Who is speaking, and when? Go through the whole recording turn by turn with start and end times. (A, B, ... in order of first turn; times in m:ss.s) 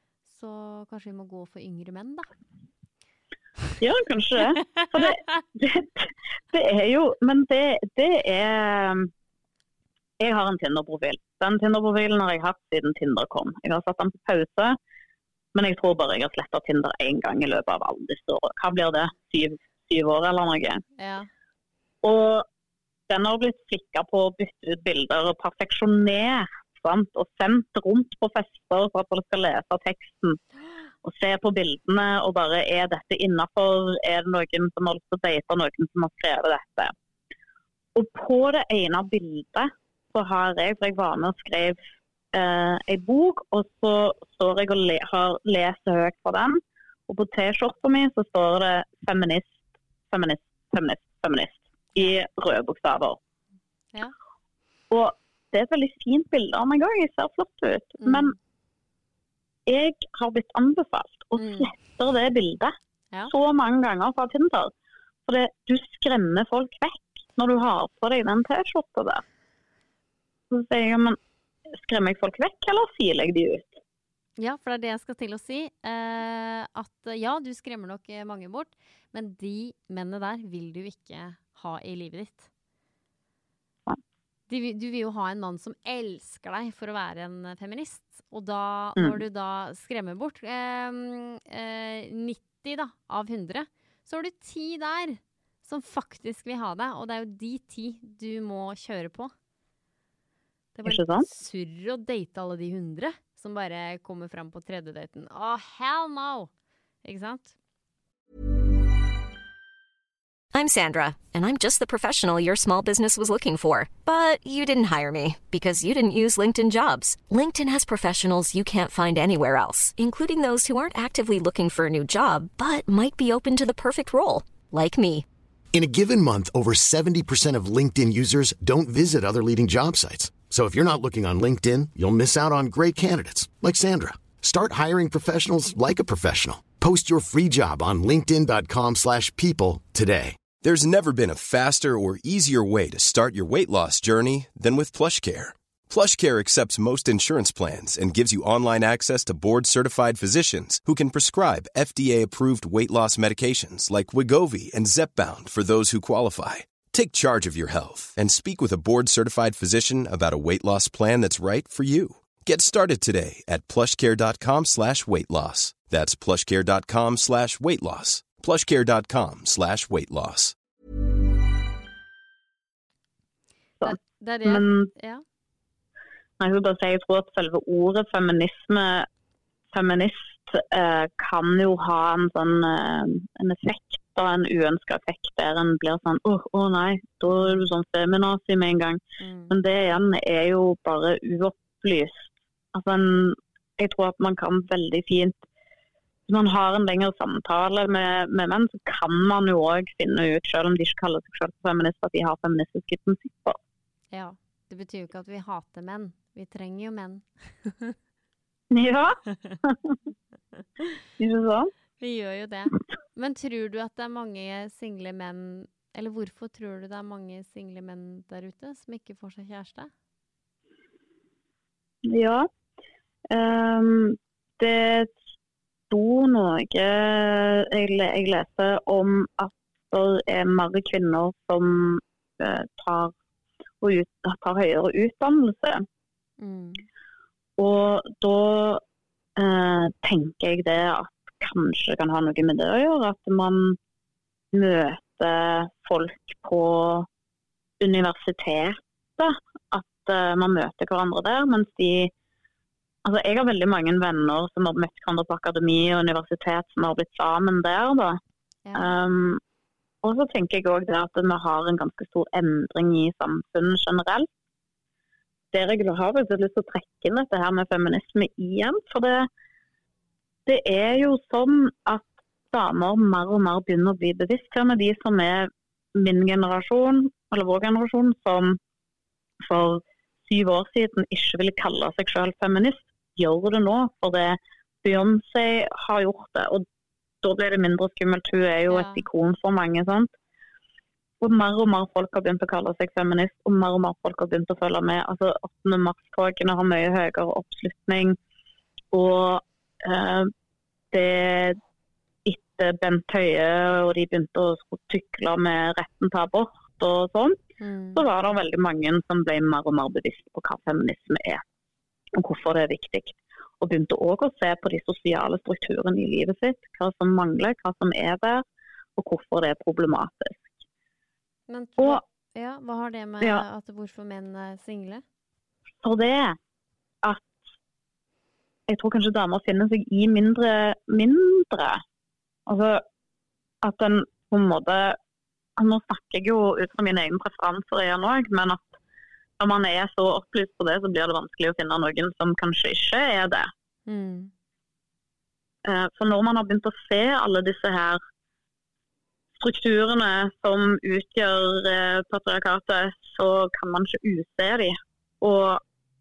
0:00.3-0:02.3 A
0:03.8-0:09.1 B
0:04.7-0:05.2 A
0:10.2-0:14.8 B
0:15.5-0:20.8 B
0:21.0-0:21.3 A
0:22.0-0:22.4 B
0:23.1-0:30.4 B
0:31.0-0:36.9 B
0:37.9-0:41.8 B
0:42.3-0:53.2 B
0:54.9-0:58.3 B
0:58.0-0:58.3 A
0:59.7-1:02.7 B
1:01.4-1:01.7 A
1:03.3-1:04.7 B
1:05.3-1:09.2 B
1:10.5-1:11.2 B
1:11.7-1:13.8 B
1:14.4-1:22.5 A
1:24.5-1:39.3 A
1:40.7-1:46.5 A
1:40.8-1:41.2 B
1:47.0-1:47.5 A
1:50.5-2:05.2 C
2:05.7-2:20.4 D
2:20.6-2:50.5 E
2:53.8-2:54.9 B
2:53.8-2:55.2 A
2:56.4-2:59.1 B
2:59.7-3:15.4 B
3:07.3-3:07.6 A
3:09.2-3:09.5 A
3:16.3-3:23.6 B
3:24.1-3:28.0 A
3:28.7-3:29.9 B
3:31.2-3:31.7 B
3:32.0-3:39.9 A
3:42.0-3:42.5 B
3:43.3-3:45.1 B
3:45.9-3:53.1 B
3:53.8-3:55.8 B
3:56.4-3:56.8 A
3:57.6-3:58.8 B
3:59.4-4:03.8 B
4:04.5-4:07.1 B
4:07.8-4:12.1 B
4:13.0-4:18.2 B
4:18.6-4:18.9 A
4:18.7-4:19.4 B
4:20.0-4:24.3 B
4:25.5-4:29.3 B
4:30.5-4:38.6 B
4:39.4-4:46.6 B
4:47.2-4:50.1 B
4:48.7-4:49.0 A
4:51.2-4:58.2 B
4:58.9-5:00.3 B
5:00.9-5:01.6 B
5:02.2-5:07.4 B
5:07.6-5:08.0 A
5:08.0-5:11.4 B
5:12.1-5:18.4 B
5:19.0-5:20.5 B
5:21.5-5:25.0 A
5:25.8-5:26.4 B
5:27.0-5:27.3 B
5:28.7-5:31.8 B
5:32.5-5:32.8 B
5:33.6-5:35.0 B
5:35.6-5:38.8 B
5:39.4-5:43.5 B
5:43.9-5:44.3 A
5:45.6-5:48.0 B
5:49.4-5:55.6 B